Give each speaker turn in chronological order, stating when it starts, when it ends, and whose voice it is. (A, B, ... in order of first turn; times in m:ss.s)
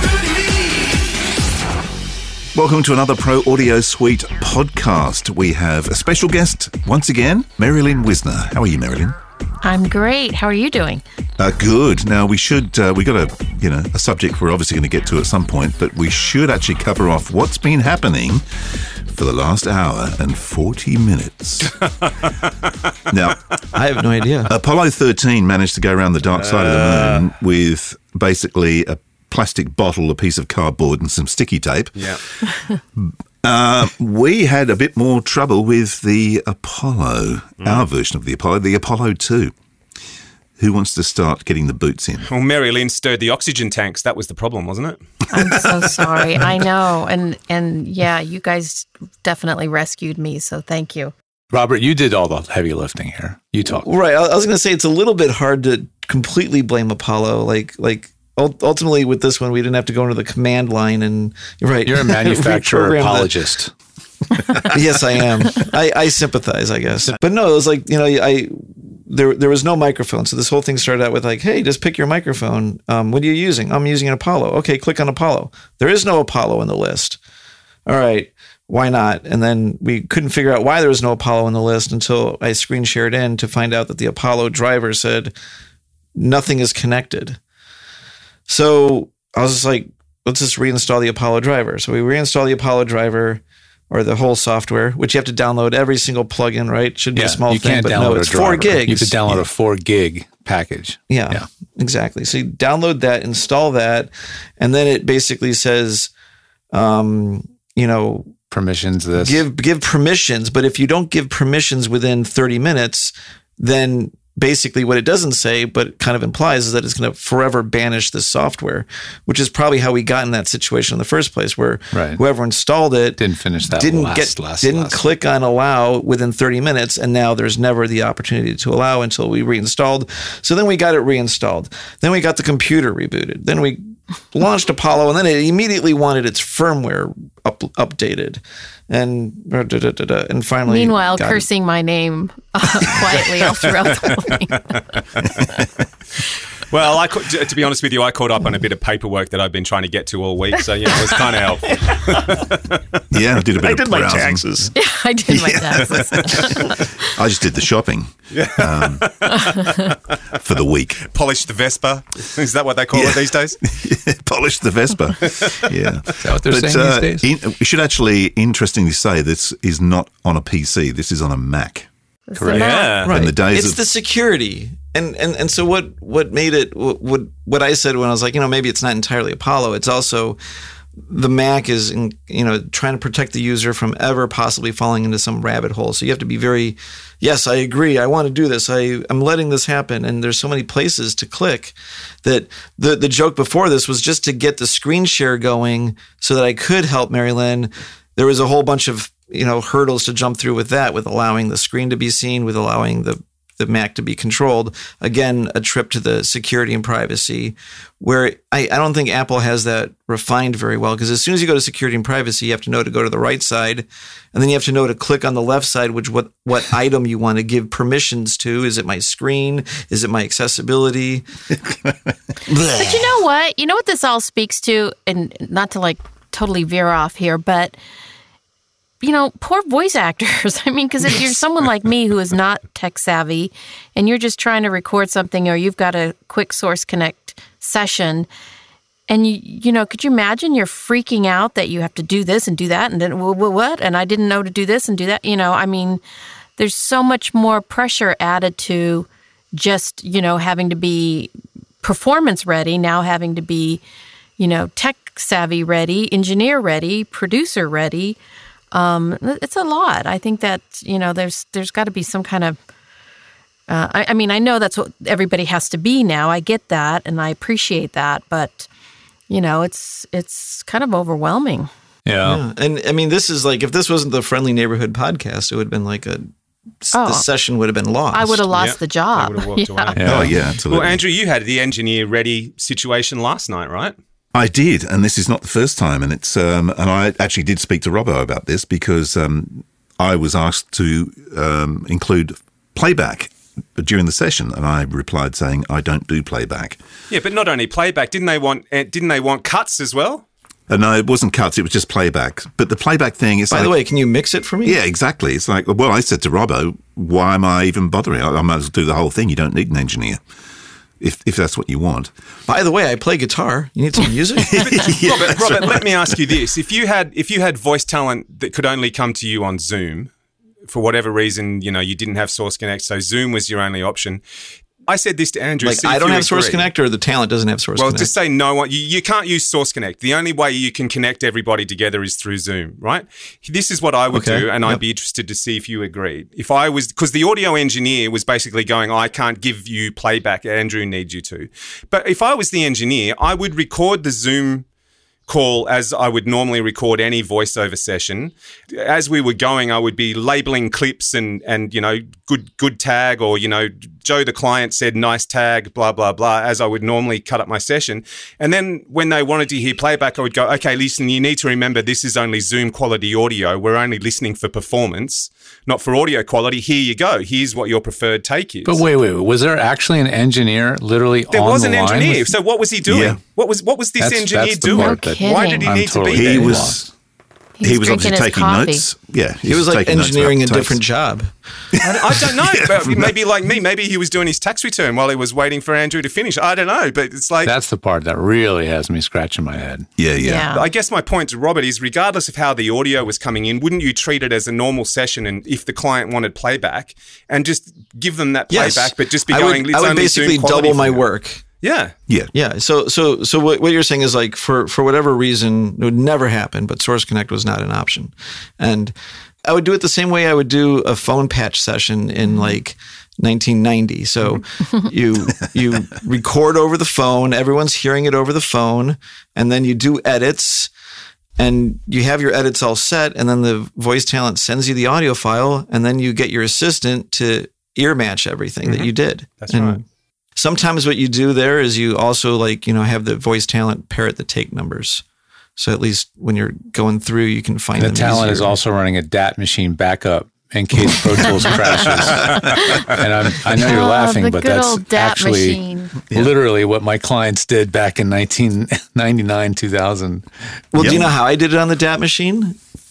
0:02.5-0:09.2 A
0:09.6-0:11.0 B
0:11.4-0:18.4 A
0:19.1-0:21.7 A
0:21.6-0:22.7 C
0:23.1-0:23.4 A
0:23.7-0:24.5 D
0:24.5-0:39.5 A
0:26.3-0:27.3 C
0:32.0-0:32.2 C
0:40.6-0:42.3 A
0:42.2-0:45.0 C
0:45.3-0:51.1 B
0:51.5-0:53.8 E
0:53.7-1:03.3 D
1:01.8-1:03.7 E
1:04.6-1:17.2 D
1:17.9-1:25.3 D
1:26.1-1:27.4 D
1:28.5-1:39.4 D
1:37.1-1:41.4 E
1:41.1-1:46.1 D
1:46.7-1:48.4 D
1:48.5-1:49.4 E
1:49.2-2:21.4 D
2:01.9-2:02.2 E
2:03.2-2:05.0 E
2:20.6-2:24.8 B
2:22.8-2:23.2 D
2:24.0-2:25.0 C
2:26.7-2:33.0 C
2:33.1-2:34.7 A
2:33.5-2:34.7 D
2:34.7-2:37.0 B
2:35.3-2:39.0 A
2:35.8-2:36.1 C
2:38.3-2:40.1 C
2:40.4-2:41.0 A
2:41.0-2:43.6 C
2:42.9-2:51.9 A
2:45.2-2:45.7 C
2:46.2-2:47.3 E
2:52.3-2:53.0 B
2:52.4-2:52.7 E
2:52.5-2:53.1 C
2:53.0-3:00.4 D
2:53.1-2:53.8 A
3:01.0-3:41.3 D
3:42.5-3:43.1 A
3:42.6-3:47.8 B
3:49.0-3:58.3 B
3:59.1-4:06.0 B
4:06.6-4:11.3 B
4:11.8-4:13.8 B
4:14.4-4:18.2 B
4:18.7-4:22.6 B
4:23.7-4:28.7 B
4:29.3-4:31.7 B
4:32.0-4:32.4 E
4:32.2-4:36.3 D
4:36.8-4:38.5 D
4:36.9-4:37.2 B
4:38.1-4:39.9 B
4:38.5-4:43.9 C
4:40.0-4:40.4 E
4:40.0-4:41.0 A
4:44.3-4:56.8 A
4:57.1-5:00.2 C
5:00.7-5:03.8 A
5:03.5-5:04.8 D
5:04.6-5:10.2 A
5:11.0-5:12.1 A
5:12.5-5:15.0 D
5:14.4-5:15.8 A
5:14.6-5:20.1 C
5:20.7-5:24.2 C
5:24.8-5:26.7 C
5:25.6-5:28.1 D
5:27.8-5:44.6 C
5:34.1-5:34.8 D
5:45.3-6:08.8 C
6:08.6-6:12.3 E
6:11.3-6:16.7 C
6:12.8-6:13.2 A
6:14.0-6:16.8 E
6:14.7-6:15.6 B
6:16.1-6:16.9 A
6:17.6-6:18.8 B
6:17.6-6:20.8 A
6:19.4-6:21.3 D
6:21.7-6:23.1 A
6:21.8-6:27.5 C
6:27.4-6:29.9 E
6:30.0-6:30.5 A
6:30.2-6:30.6 B
6:30.5-6:41.0 C
6:38.5-6:41.4 D
6:41.6-6:41.9 C
6:42.3-6:48.9 D
6:49.4-7:00.7 D
6:52.2-6:52.6 B
7:01.4-7:09.8 D
7:09.4-7:09.8 C
7:10.4-7:15.0 D
7:15.6-7:18.6 D
7:17.8-7:25.6 E
7:22.2-7:22.7 A
7:23.6-7:26.0 B
7:26.1-7:31.1 E
7:30.7-7:32.6 D
7:30.8-7:31.1 A